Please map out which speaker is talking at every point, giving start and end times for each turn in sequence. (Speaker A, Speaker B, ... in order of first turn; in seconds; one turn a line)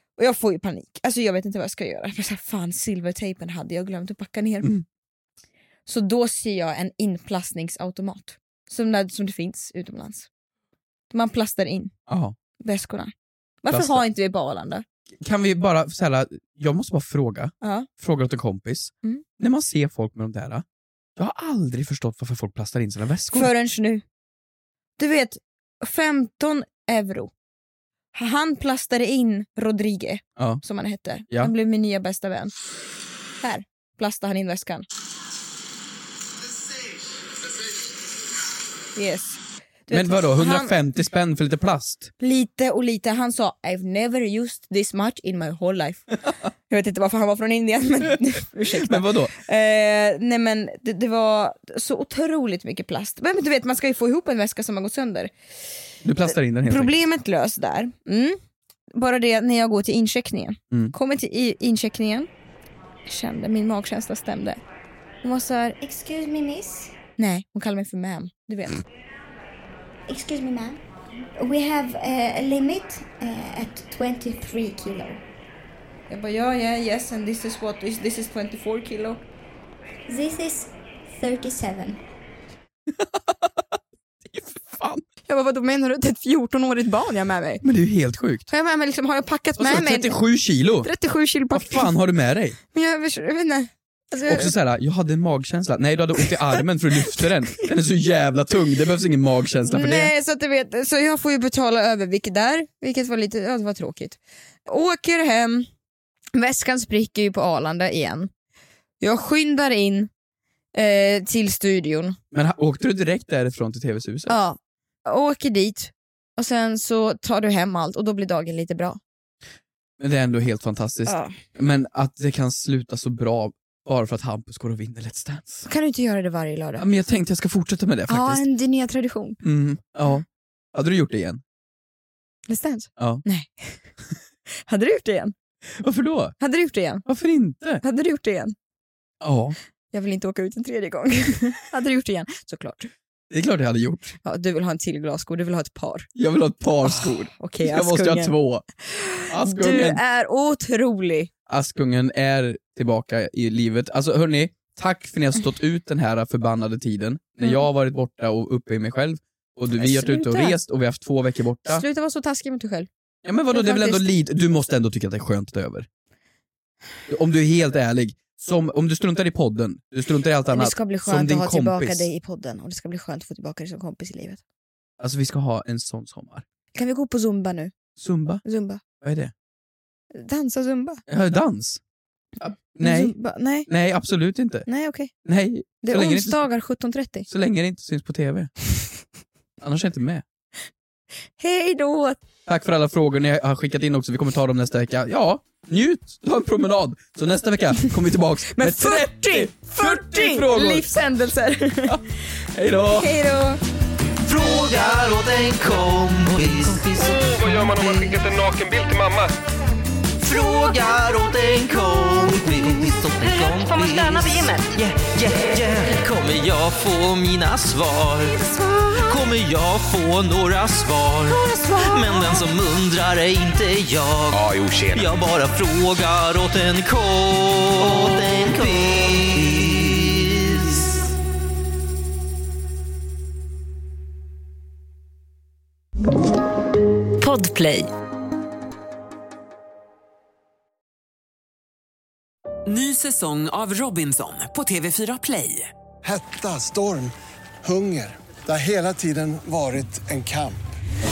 Speaker A: 0.2-4.7
Speaker A: 5.9-10.3
Speaker A: 11.1-11.9
Speaker B: 12.1-12.3
Speaker A: 12.6-13.1
Speaker A: 13.6-14.8
Speaker B: 13.7-14.0
Speaker B: 15.2-20.6
Speaker A: 17.6-17.9
Speaker B: 21.2-23.5
Speaker A: 23.3-24.0
Speaker A: 25.0-27.3
Speaker A: 28.1-32.5
Speaker B: 30.4-30.6
Speaker A: 33.4-34.9
Speaker A: 39.0-40.7
Speaker B: 39.9-42.1
Speaker A: 42.2-46.1
Speaker A: 46.7-55.3
Speaker B: 48.6-49.4
Speaker B: 56.0-57.0
Speaker A: 56.3-58.4
Speaker A: 58.9-62.3
Speaker A: 63.1-64.6
Speaker A: 65.2-65.8
Speaker C: 65.8-67.0
Speaker A: 67.2-68.8
Speaker C: 70.1-70.8
Speaker C: 71.4-75.2
Speaker A: 76.1-79.2
Speaker C: 80.1-82.0
Speaker B: 83.0-83.6
Speaker B: 84.3-85.1
Speaker A: 85.3-87.6
Speaker B: 87.6-88.5
Speaker A: 88.5-90.2
Speaker B: 89.6-90.9
Speaker A: 90.8-91.9
Speaker B: 91.5-92.6
Speaker A: 92.7-94.5
Speaker B: 94.3-100.1
Speaker A: 99.7-105.7
Speaker A: 106.3-108.3
Speaker A: 109.0-110.1
Speaker A: 110.8-112.2
Speaker B: 112.3-114.4
Speaker A: 114.3-119.0
Speaker B: 120.0-125.7
Speaker A: 121.1-121.4
Speaker A: 125.7-126.9
Speaker B: 126.8-128.4
Speaker A: 128.1-129.4
Speaker B: 129.4-131.4
Speaker A: 132.5-133.8
Speaker B: 133.0-133.2
Speaker A: 134.7-135.3
Speaker B: 135.8-136.3
Speaker A: 136.4-137.0
Speaker B: 137.1-137.8
Speaker A: 137.8-138.6
Speaker B: 139.2-139.6
Speaker A: 139.9-142.9
Speaker B: 143.3-144.2
Speaker A: 144.2-146.1
Speaker B: 146.2-148.7
Speaker A: 147.0-148.3
Speaker A: 148.9-151.3
Speaker B: 149.3-150.0
Speaker B: 151.5-161.8
Speaker A: 159.8-160.6
Speaker A: 161.7-162.9
Speaker B: 163.2-165.9
Speaker A: 163.5-164.2
Speaker B: 167.1-172.1
Speaker A: 170.5-174.4
Speaker B: 175.0-176.4
Speaker A: 176.7-177.7
Speaker B: 178.0-178.4
Speaker A: 178.4-178.8
Speaker B: 179.0-179.3
Speaker A: 180.1-181.0
Speaker B: 181.1-181.8
Speaker B: 182.4-183.2
Speaker A: 182.8-183.7
Speaker B: 183.7-184.7
Speaker A: 184.7-185.1
Speaker B: 185.2-186.4
Speaker A: 185.8-187.3
Speaker B: 187.3-188.5
Speaker B: 189.6-190.2
Speaker A: 191.4-192.2
Speaker B: 192.5-200.9
Speaker A: 198.5-202.0
Speaker B: 202.5-203.1
Speaker A: 202.9-203.6
Speaker D: 204.2-208.1
Speaker E: 207.3-209.3
Speaker D: 210.2-230.9
Speaker F: 213.4-214.6
Speaker A: 218.5-218.9
Speaker A: 221.3-222.4
Speaker F: 237.2-237.9
Speaker G: 242.7-245.7
Speaker H: 246.0-250.6